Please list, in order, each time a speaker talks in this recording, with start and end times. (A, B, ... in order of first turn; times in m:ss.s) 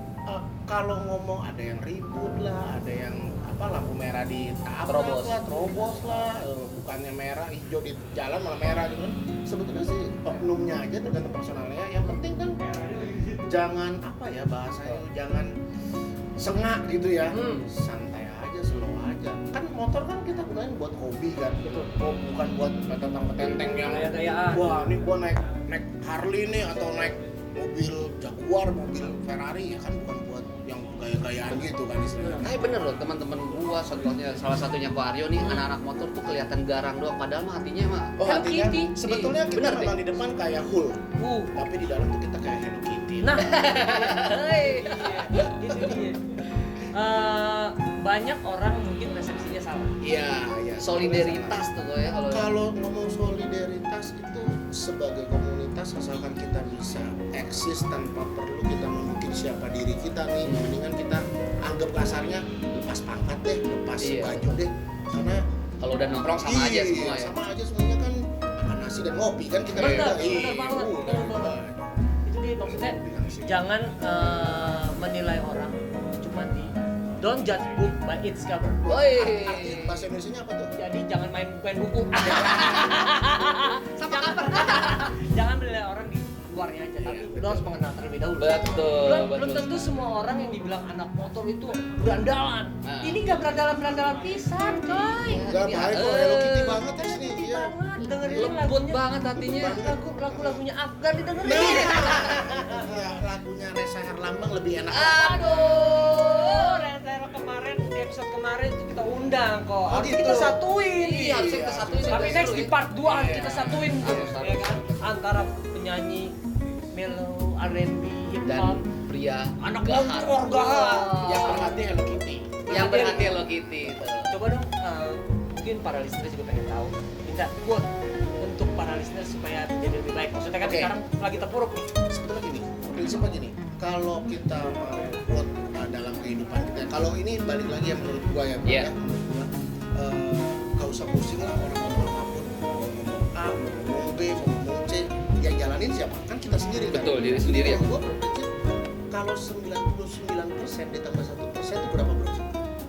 0:00.3-0:12.6 A
0:04.9-0:05.4 B
0:13.4-0:15.5 A
0:16.4-0:32.8 A
0:17.3-0:17.7 B
0:21.6-0:21.9 C
0:23.8-0:24.7 C
0:32.3-0:38.2 B
0:38.2-0:41.0 A
0:38.2-0:39.0 C
0:39.0-0:40.0 B
0:41.2-0:41.5 C
0:41.6-0:43.6 A
0:43.2-0:46.3 C
0:43.4-0:46.0 B
0:46.9-0:49.9 C
0:50.0-0:51.7 A
0:50.8-0:52.5 B
0:52.3-1:05.4 A
1:00.4-1:00.8 B
1:04.0-1:04.4 B
1:05.8-1:07.4 B
1:06.3-1:11.9 A
1:09.8-1:10.4 B
1:09.8-1:11.6 C
1:12.3-1:19.8 C
1:12.6-1:13.6 A
1:18.9-1:20.0 B
1:18.9-1:20.7 A
1:20.8-1:35.5 C
1:22.3-1:23.1 B
1:24.0-1:25.1 B
1:27.0-1:27.7 A
1:28.4-1:30.0 B
1:32.8-1:33.2 B
1:33.3-1:34.0 A
1:34.8-1:36.8 B
1:35.4-1:38.5 A
1:37.0-1:39.0 C
1:38.3-1:39.8 B
1:39.4-1:40.6 A
1:39.6-1:42.9 C
1:41.4-1:45.9 A
1:41.5-1:42.2 B
1:44.9-1:46.9 B
1:45.2-1:51.5 C
1:49.9-1:50.7 A
1:50.9-1:52.7 B
1:51.2-1:54.4 A
1:52.1-1:56.3 C
1:53.3-1:55.1 B
1:56.9-1:58.8 C
1:58.5-2:01.7 B
1:59.6-2:01.8 C
2:00.6-2:03.6 A
2:02.7-2:03.4 C
2:02.7-2:04.3 B
2:04.3-2:07.9 C
2:08.4-2:11.9 C
2:10.6-2:10.9 A
2:12.1-2:28.5 A
2:18.6-2:18.9 B
2:26.9-2:28.0 B
2:29.1-2:32.6 A